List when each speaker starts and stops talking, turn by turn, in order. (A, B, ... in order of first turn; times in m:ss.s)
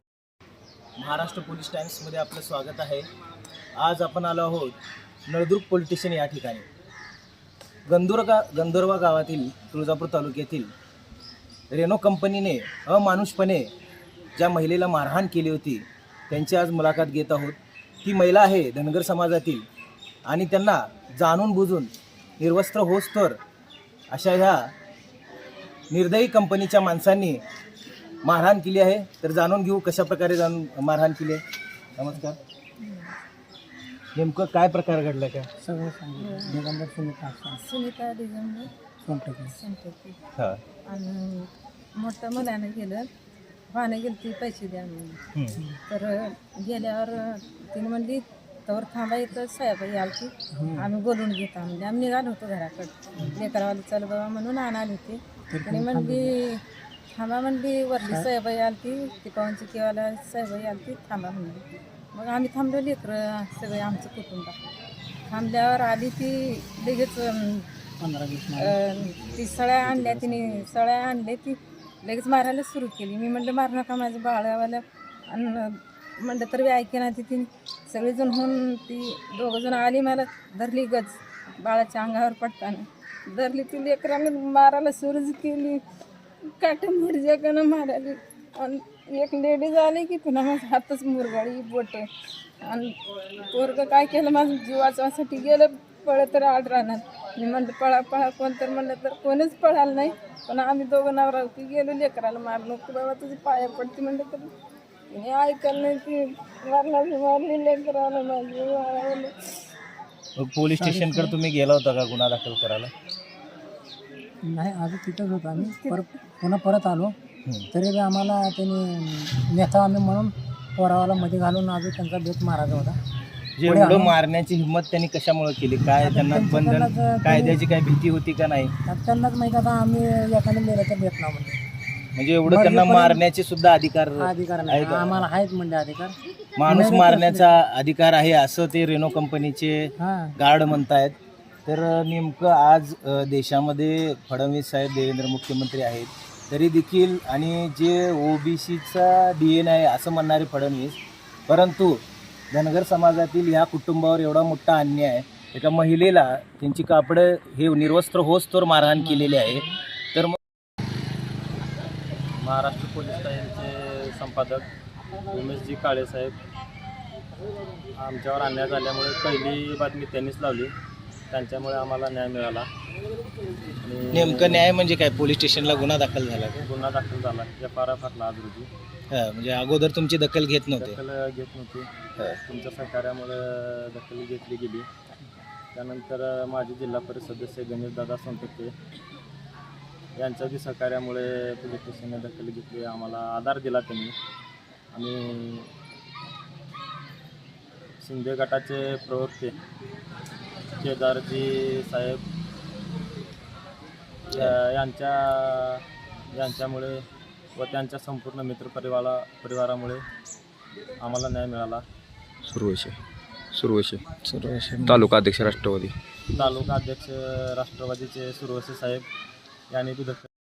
0:01.0-0:03.0 A
0:03.8-0:04.7 A
0:05.3-0:06.6 A
0:07.9-0:10.7 A
0:11.7-0:13.7 A
0:14.4-0:19.6 A
0:20.3-0:23.4 A
0:24.1-0:24.7 A
0:25.9-0:27.4 A
0:28.2-0:31.4 A
0:32.0-0:32.4 A
0:34.2-0:35.5 A
0:35.6-0:37.6 B
0:36.2-0:36.6 C
0:37.5-0:38.7 C
0:39.0-0:39.6 B
0:39.6-0:40.2 C
0:40.4-0:40.6 A
0:40.8-0:43.1 C
0:43.7-0:45.2 C
0:45.9-1:04.6 C
0:50.6-0:50.9 B
0:55.5-0:56.3 B
1:05.3-1:07.7 C
1:08.0-1:08.8 B
1:08.6-1:25.8 C
1:09.8-1:10.6 D
1:26.5-1:32.1 C
1:32.6-1:44.5 C
1:45.1-1:49.6 C
1:50.4-1:52.9 A
1:50.8-1:51.4 B
1:54.4-1:57.1 B
1:55.6-1:56.0 C
1:57.7-2:03.0 B
2:03.6-2:08.7 A
2:03.6-2:04.2 B
2:06.0-2:07.6 B
2:08.9-2:11.6 B
2:12.2-2:15.3 A
2:12.5-2:13.2 B
2:14.2-2:16.2 B
2:16.6-2:32.0 A
2:16.7-2:17.5 B
2:20.0-2:20.4 B
2:32.5-2:40.4 A
2:39.0-2:39.7 B
2:42.4-2:44.7 D
2:45.3-2:46.3 D
2:48.0-2:50.7 D
2:51.3-2:52.7 D
2:53.8-2:54.7 D
2:54.1-2:56.6 A
2:56.6-2:58.7 D
2:59.1-3:01.0 A
3:00.8-3:01.9 D
3:02.4-3:04.9 D
3:05.7-3:08.7 D
3:10.2-3:14.2 D
3:14.9-3:15.7 D
3:18.0-3:19.6 D
3:20.8-3:22.2 D
3:24.3-3:27.0 D
3:27.6-3:30.0 D
3:31.0-3:31.8 D
3:32.5-3:32.9 E
3:33.5-3:35.9 E
3:36.3-3:39.1 D
3:39.7-3:40.3 D